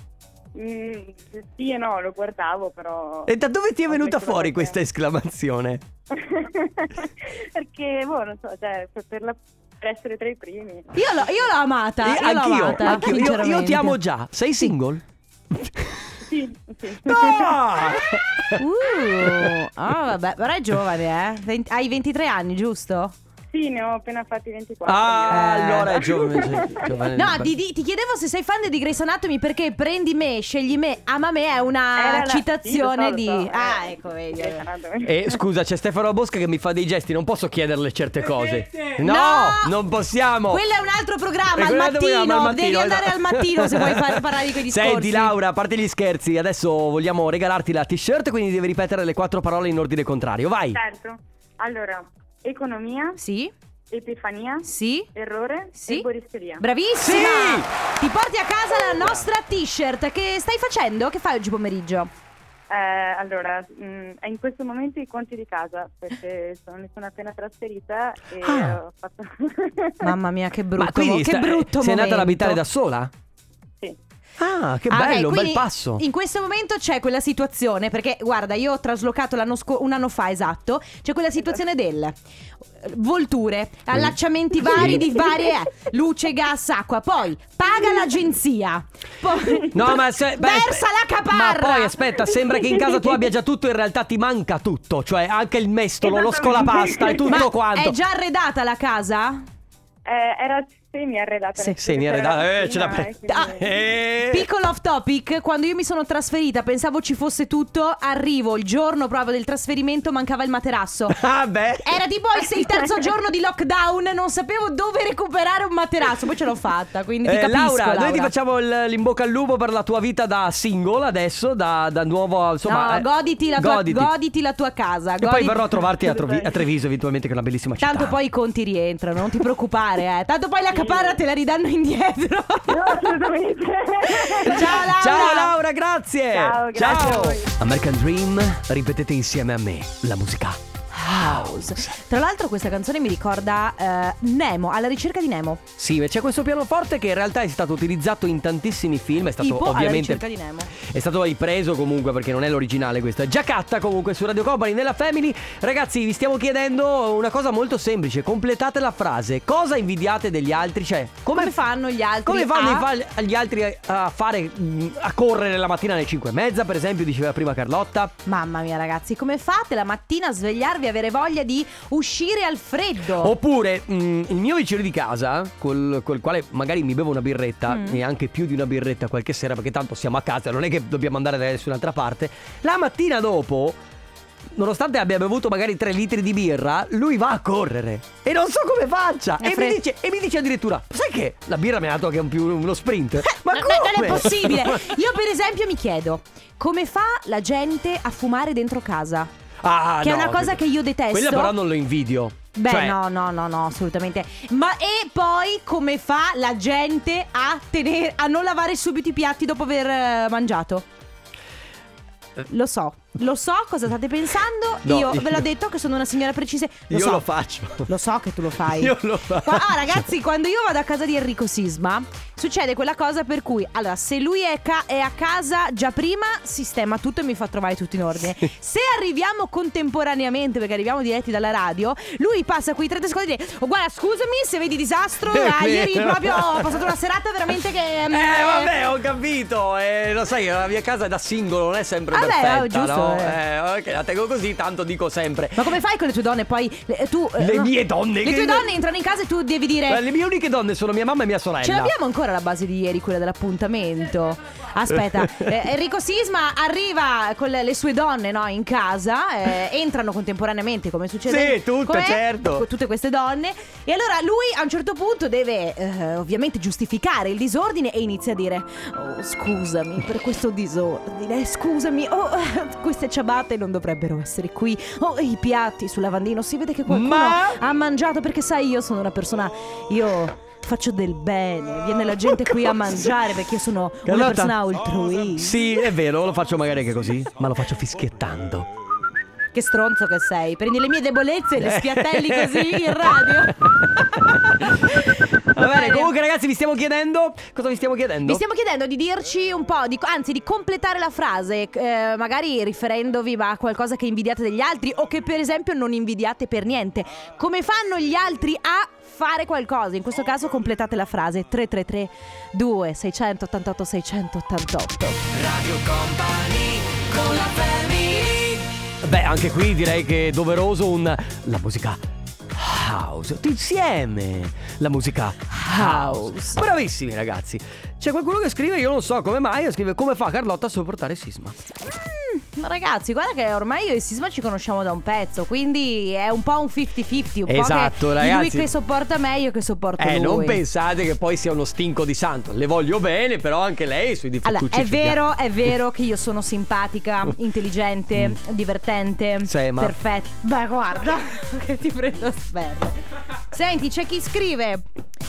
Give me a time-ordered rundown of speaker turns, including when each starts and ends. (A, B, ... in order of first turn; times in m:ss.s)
0:00.6-0:03.3 A
0:03.3-0:05.8 B
0:03.9-0:04.8 A
0:06.1-0:11.0 A
0:11.0-0:14.0 C
0:12.0-0:15.0 B
0:16.3-0:17.6 A
0:17.0-0:18.6 B
0:18.6-0:23.2 C
0:23.5-0:26.8 A
0:24.8-0:27.5 B
0:25.3-0:25.9 C
0:27.2-0:34.6 C
0:32.0-0:35.1 A
0:35.0-0:40.6 B
0:39.0-0:39.7 C
0:40.5-0:45.4 C
0:41.6-0:50.8 B
0:50.7-0:53.2 A
0:53.2-0:53.5 C
0:53.9-0:56.6 A
0:54.6-0:55.1 C
0:55.8-0:56.1 C
0:56.6-1:02.1 C
0:57.0-0:57.7 B
1:02.7-1:10.1 A
1:08.4-1:08.8 B
1:10.0-1:12.6 C
1:10.8-1:13.1 B
1:14.4-1:16.0 B
1:14.9-1:22.2 C
1:22.8-1:32.0 C
1:23.9-1:25.0 B
1:29.7-1:38.0 B
1:32.5-1:32.9 A
1:36.0-1:37.4 A
1:37.3-1:39.4 C
1:40.1-1:43.8 A
1:41.8-1:44.4 B
1:44.3-1:51.2 C
1:51.1-1:51.9 B
1:51.8-1:58.3 C
1:52.6-1:52.8 A
1:57.2-2:04.1 B
2:02.7-2:05.8 C
2:05.2-2:08.2 B
2:06.0-2:06.6 A
2:07.8-2:13.1 C
2:10.7-2:11.2 A
2:12.7-2:14.6 A
2:14.4-2:21.8 B
2:14.4-2:15.5 C
2:16.3-2:17.5 A
2:20.9-2:25.6 C
2:25.8-2:30.2 B
2:29.4-2:30.7 C
2:30.8-2:41.5 B
2:41.3-2:42.9 C
2:42.2-2:48.1 B
2:48.3-2:53.3 C
2:53.2-3:03.8 B
2:57.7-2:58.0 C
3:04.6-3:14.9 B
3:09.4-3:09.8 C
3:13.4-3:19.3 C
3:19.6-3:20.6 B
3:20.0-3:21.6 C
3:21.1-3:23.0 B
3:22.6-3:30.8 C
3:32.5-3:37.2 C
3:34.8-3:35.4 B
3:36.9-3:37.9 B
3:37.9-3:58.7 C
3:38.7-3:40.0 B
3:55.3-3:56.8 B
3:58.1-4:05.7 B
4:02.1-4:03.4 C
4:05.6-4:10.0 C
4:07.4-4:08.7 B
4:09.9-4:11.9 B
4:11.6-4:45.7 C
4:15.0-4:15.5 B
4:21.3-4:22.6 B
4:36.9-4:37.6 B
4:42.3-4:43.1 B
4:44.1-4:44.6 B
4:45.4-4:48.7 B
4:49.5-4:53.5 C
4:51.6-4:54.8 B
4:55.5-4:58.4 B
4:55.6-4:56.1 C
4:58.3-5:15.2 C
5:15.3-5:22.0 B
5:22.5-5:31.6 B
5:25.5-5:26.6 C
5:31.8-5:40.6 C
5:37.5-5:38.7 B
5:40.0-5:45.2 B
5:44.4-5:53.0 C
5:49.4-5:49.9 B
5:53.5-5:54.8 C